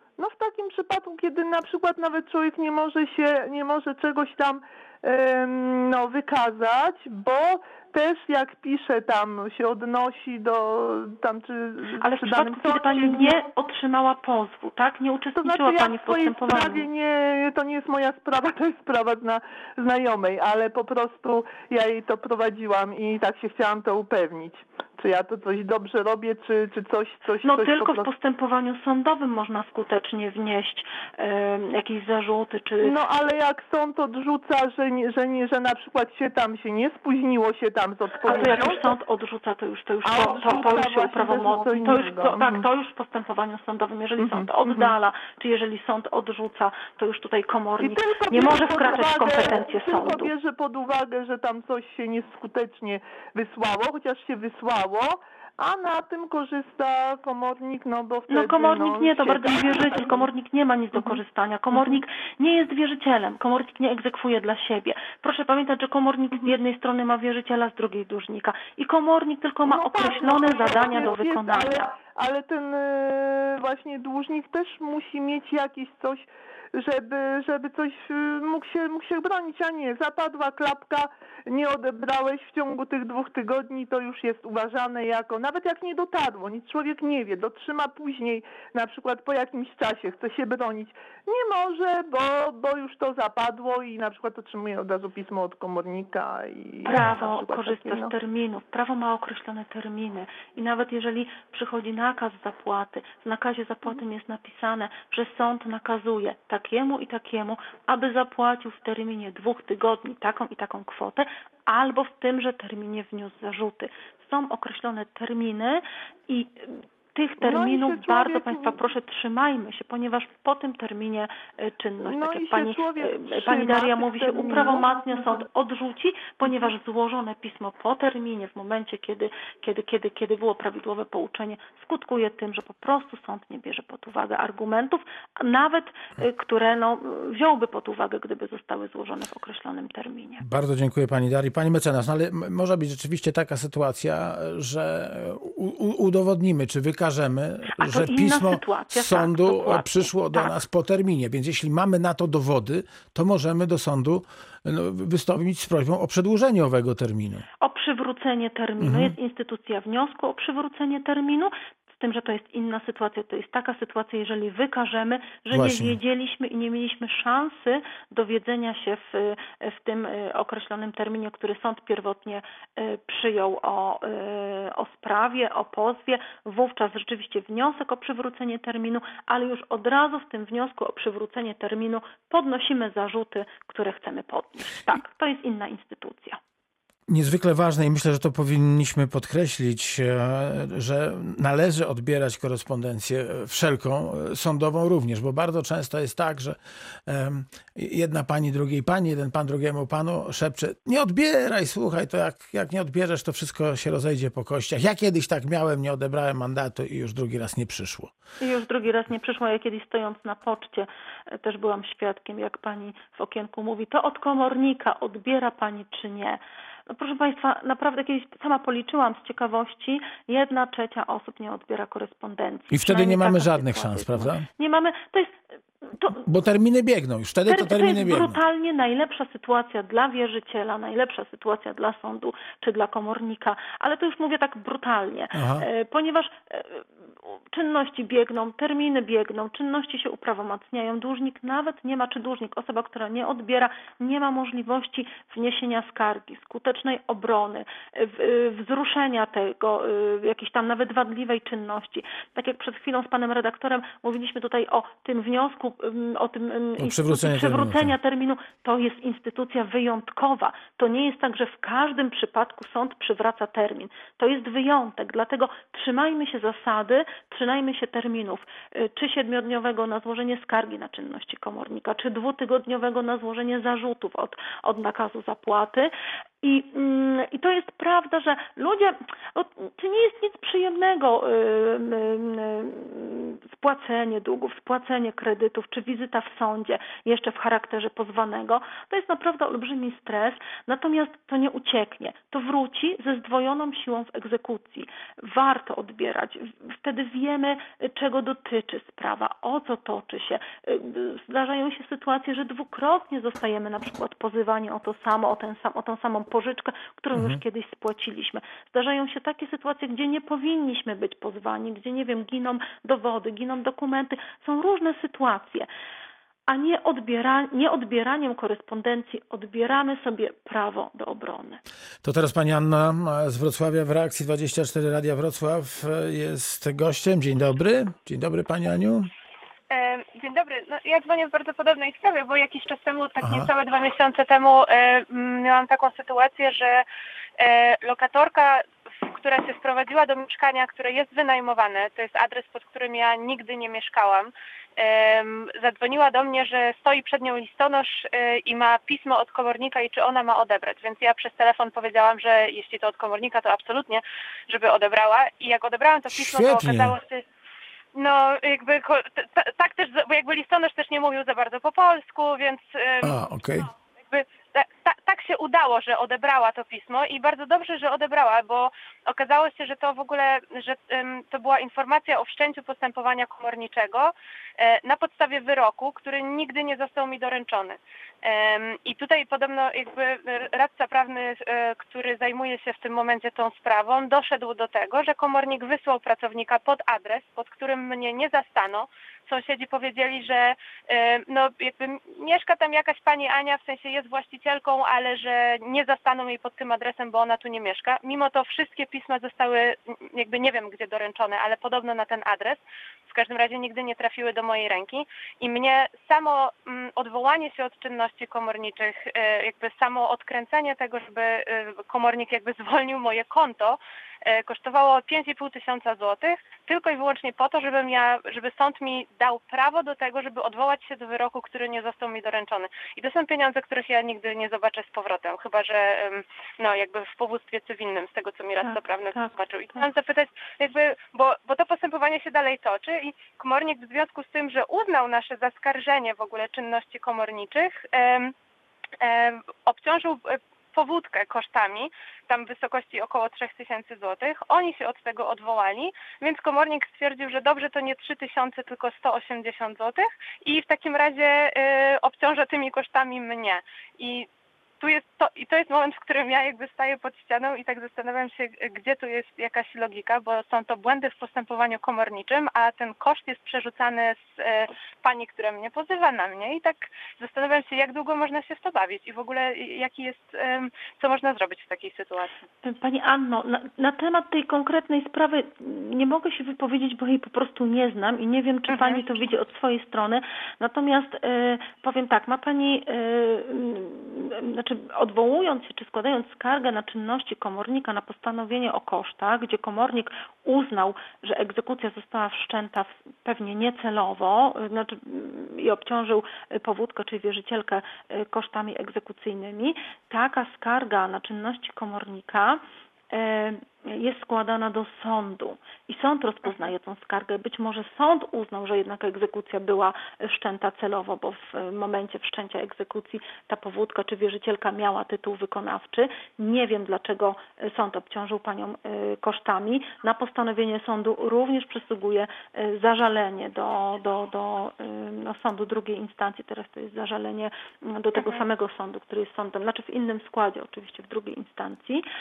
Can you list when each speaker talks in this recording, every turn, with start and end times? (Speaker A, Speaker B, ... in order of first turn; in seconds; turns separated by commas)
Speaker A: 0.2-13.4, Speaker B: 12.0-16.9, Speaker A: 15.4-28.1, Speaker B: 27.4-33.0, Speaker A: 32.8-38.9, Speaker B: 38.2-50.3, Speaker A: 40.0-42.6, Speaker A: 44.2-44.9, Speaker A: 47.8-60.2, Speaker B: 58.3-71.9, Speaker A: 69.7-98.1, Speaker B: 96.8-140.4, Speaker A: 117.4-118.8, Speaker A: 122.0-125.4, Speaker C: 140.4-157.4, Speaker B: 147.8-150.6, Speaker B: 157.6-186.4, Speaker C: 158.8-159.1, Speaker C: 165.5-165.9, Speaker C: 187.1-208.1, Speaker B: 208.4-226.2, Speaker C: 222.7-224.5, Speaker C: 226.2-228.4, Speaker B: 227.5-315.7, Speaker C: 235.3-235.7, Speaker C: 256.8-257.9, Speaker C: 307.1-307.4, Speaker B: 316.5-321.6, Speaker C: 322.0-329.1, Speaker D: 329.7-336.8, Speaker C: 333.2-333.5, Speaker D: 337.4-357.2, Speaker C: 356.1-357.0, Speaker D: 357.9-363.2, Speaker C: 363.0-363.7, Speaker D: 364.1-438.3, Speaker B: 428.6-429.8, Speaker D: 439.0-454.3, Speaker D: 454.8-472.4, Speaker B: 472.6-532.0, Speaker D: 478.7-479.1, Speaker D: 528.2-528.4